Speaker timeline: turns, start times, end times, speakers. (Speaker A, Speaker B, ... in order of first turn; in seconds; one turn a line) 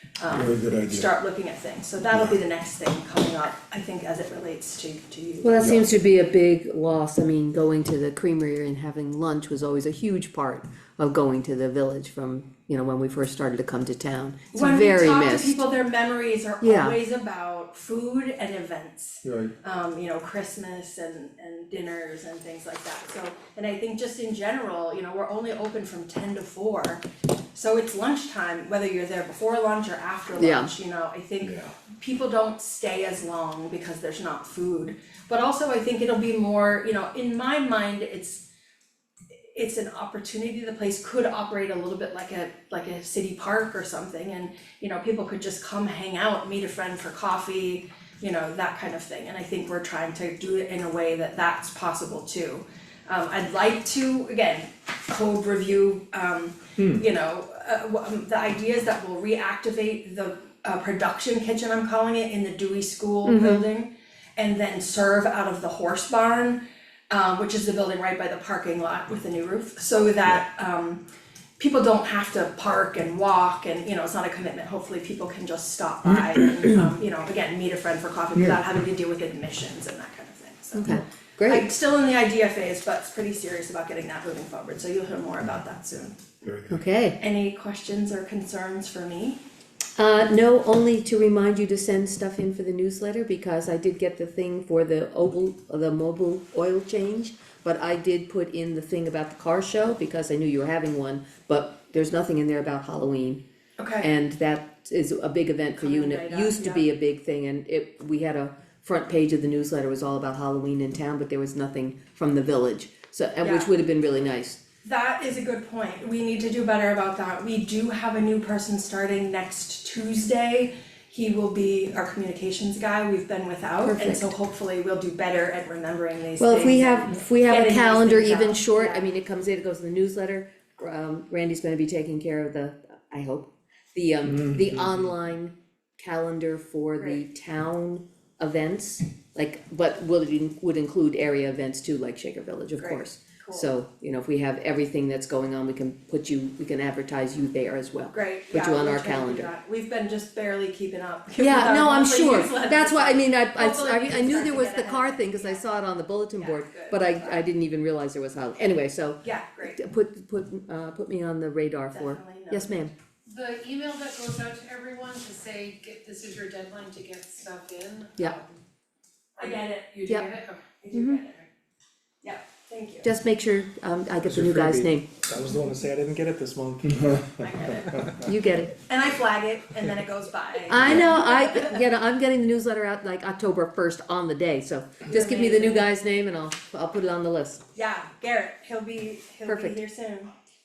Speaker A: 0.2-5.6
Speaker B: 0.3-1.1
Speaker C: 5.4-15.6
Speaker B: 5.6-5.9
Speaker A: 14.5-27.0
Speaker C: 16.6-16.9
Speaker B: 19.2-19.5
Speaker A: 27.5-38.5
Speaker C: 30.4-30.7
Speaker B: 31.4-31.7
Speaker A: 39.5-71.0
Speaker C: 63.2-63.6
Speaker A: 71.6-86.2
Speaker C: 80.8-81.7
Speaker B: 86.4-86.8
Speaker C: 86.7-87.2
Speaker A: 87.2-89.4
Speaker C: 90.0-103.4
Speaker A: 103.8-104.1
Speaker C: 104.0-114.6
Speaker A: 105.8-106.9
Speaker A: 113.4-113.7
Speaker A: 114.8-129.1
Speaker C: 123.8-124.3
Speaker C: 126.4-149.5
Speaker A: 142.8-143.7
Speaker A: 148.1-155.6
Speaker C: 151.4-162.9
Speaker A: 156.3-157.4
Speaker A: 159.2-159.8
Speaker A: 161.9-162.8
Speaker D: 163.3-168.6
Speaker D: 169.4-170.7
Speaker A: 169.4-171.5
Speaker C: 170.9-171.2
Speaker A: 172.2-173.1
Speaker C: 173.0-175.1
Speaker B: 174.3-174.9
Speaker E: 174.3-177.1
Speaker B: 176.8-177.2
Speaker A: 177.4-178.2
Speaker C: 178.2-178.8
Speaker A: 178.8-181.8
Speaker C: 180.7-187.6
Speaker A: 185.1-185.9
Speaker A: 187.7-190.3
Speaker C: 189.4-189.8